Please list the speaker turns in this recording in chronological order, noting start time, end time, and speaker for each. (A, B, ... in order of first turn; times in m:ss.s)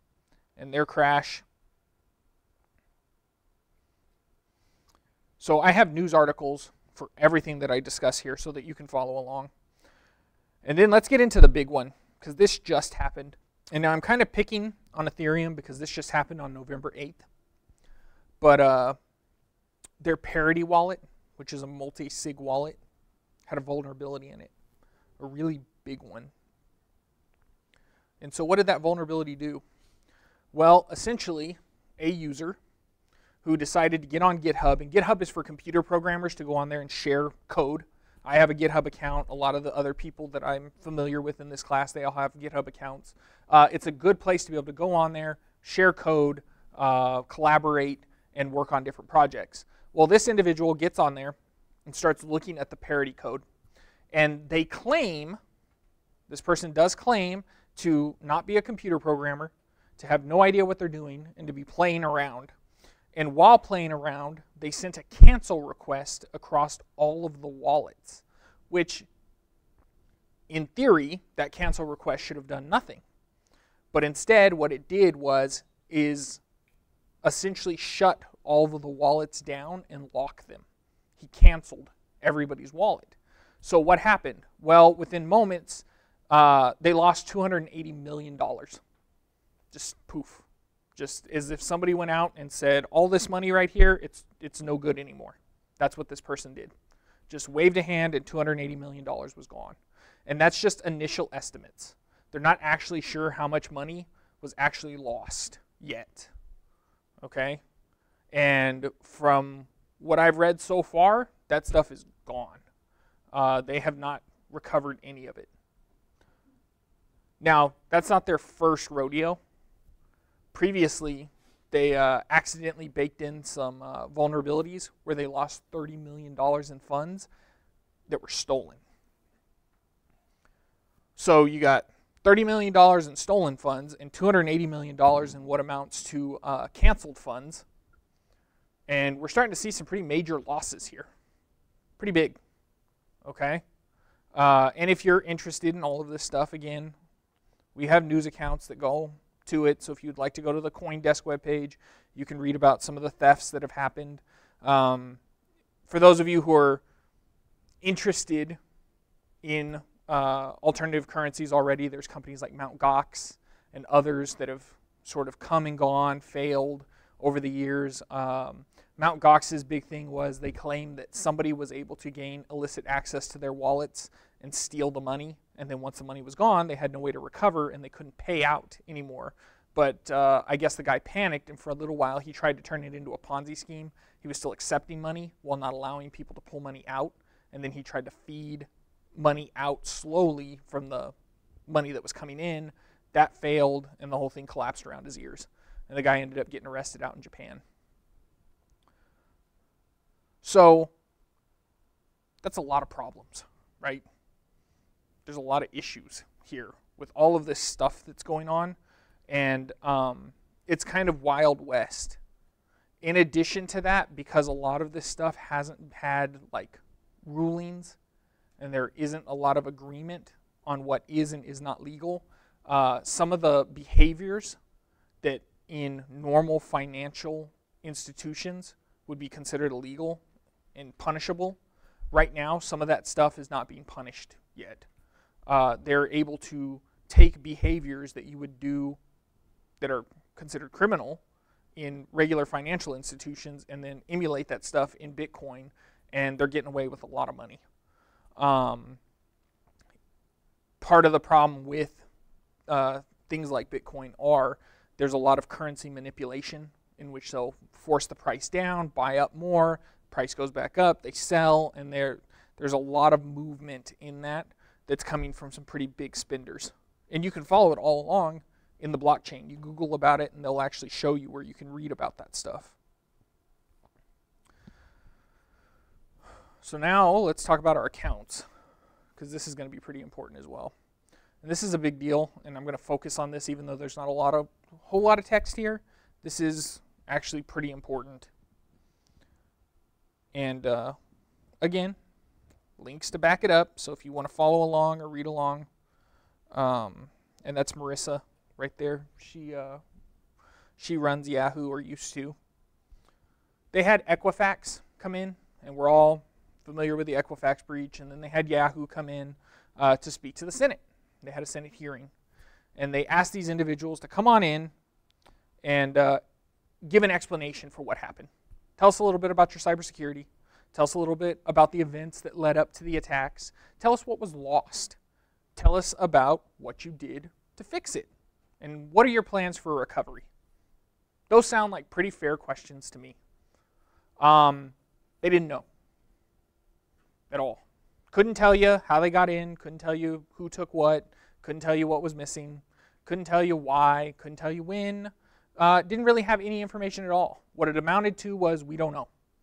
0:00.6-0:01.4 A
0:05.4-0:09.5 A
0:10.6-0:17.2 A
0:18.4-0:19.0 A
0:20.0-0:22.8 A
0:23.5-0:24.5 A
0:25.2-0:26.3 A
0:28.2-0:29.6 A
0:30.5-0:32.6 A
0:33.4-0:51.4 A
0:51.9-0:53.4 A
0:54.1-0:55.4 A
0:56.3-1:02.5 A
1:03.2-1:09.1 A
1:10.5-1:13.0 A
1:13.9-1:16.4 A
1:17.2-1:20.6 A
1:21.2-1:28.8 A
1:29.7-1:30.4 A
1:31.0-1:36.7 A
1:37.3-1:39.8 A
1:40.3-1:46.3 A
1:47.2-1:47.6 A
1:48.3-1:52.6 A
1:53.3-1:55.5 A
1:57.4-1:59.4 A
2:00.5-2:07.3 A
2:08.1-2:08.8 A
2:11.2-2:17.6 A
2:18.9-2:21.1 A
2:22.0-2:22.4 A
2:23.2-2:23.6 A
2:24.4-2:26.9 A
2:27.8-2:35.2 A
2:35.9-2:36.8 A
2:37.8-2:38.6 A
2:39.4-3:11.1 A
3:11.7-3:17.6 A
3:20.4-3:20.9 A
3:22.4-3:24.0 A
3:25.3-3:28.8 A
3:29.3-3:32.2 A
3:33.0-3:38.0 A
3:38.6-3:44.6 A
3:45.2-3:50.2 A
3:50.8-3:51.6 A
3:52.1-3:54.8 A
3:55.5-3:59.0 A
3:59.8-4:01.2 A
4:01.8-4:07.6 A
4:08.4-4:09.0 A
4:10.8-4:12.0 A
4:12.7-4:32.7 A
4:36.6-4:38.4 A
4:39.2-4:40.7 A
4:41.4-4:48.3 A
4:50.3-4:51.0 A
4:51.6-4:52.0 A
4:52.8-4:55.7 A
4:56.5-4:59.8 A
5:00.8-5:02.4 A
5:03.7-5:12.1 A
5:12.8-5:14.7 A
5:15.6-5:16.2 A
5:16.8-5:25.0 A
5:25.6-5:28.1 A
5:28.6-5:30.3 A
5:31.3-5:33.2 A
5:34.2-5:35.6 A
5:37.3-5:37.6 A
5:38.1-5:49.1 A